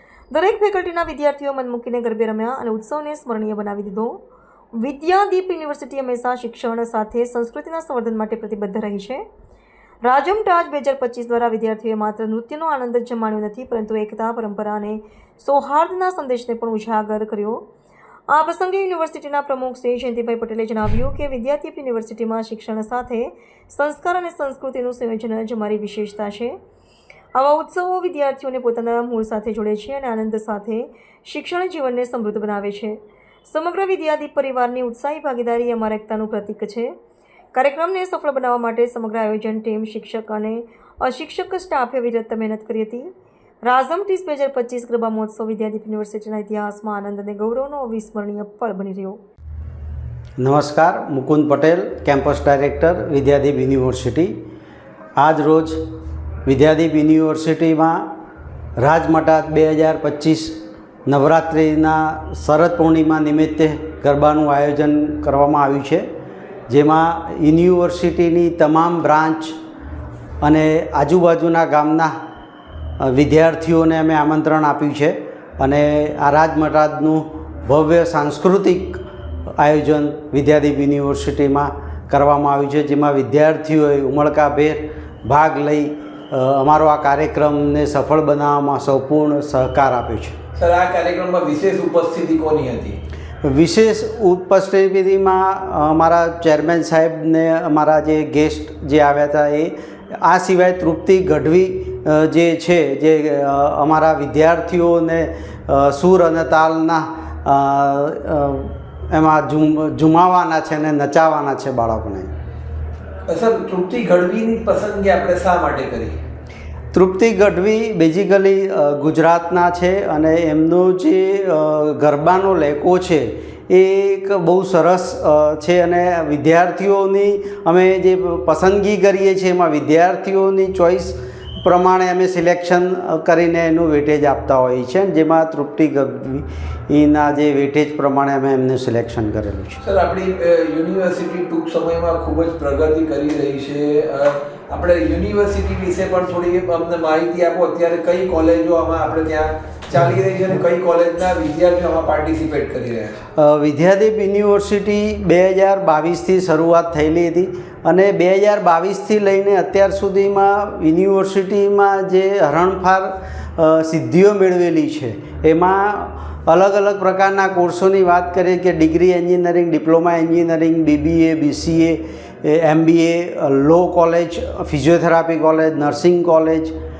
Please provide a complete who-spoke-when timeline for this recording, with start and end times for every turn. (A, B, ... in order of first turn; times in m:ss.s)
0:00.3-0:04.2 A
0:04.8-0:09.2 A
0:10.0-0:17.6 A
0:18.3-0:26.6 A
0:27.4-0:37.0 A
0:37.5-0:43.1 A
0:43.6-0:49.2 A
0:50.4-0:54.4 B
0:55.2-0:55.8 B
0:56.5-0:58.1 B
0:58.8-1:06.0 B
1:06.7-1:09.6 B
1:10.4-1:12.1 B
1:13.0-1:19.0 B
1:19.6-1:30.4 B
1:30.6-1:33.0 C
1:33.4-1:52.3 B
1:53.3-1:56.2 C
1:56.9-2:19.8 B
2:19.8-2:33.2 C
2:33.4-2:56.7 B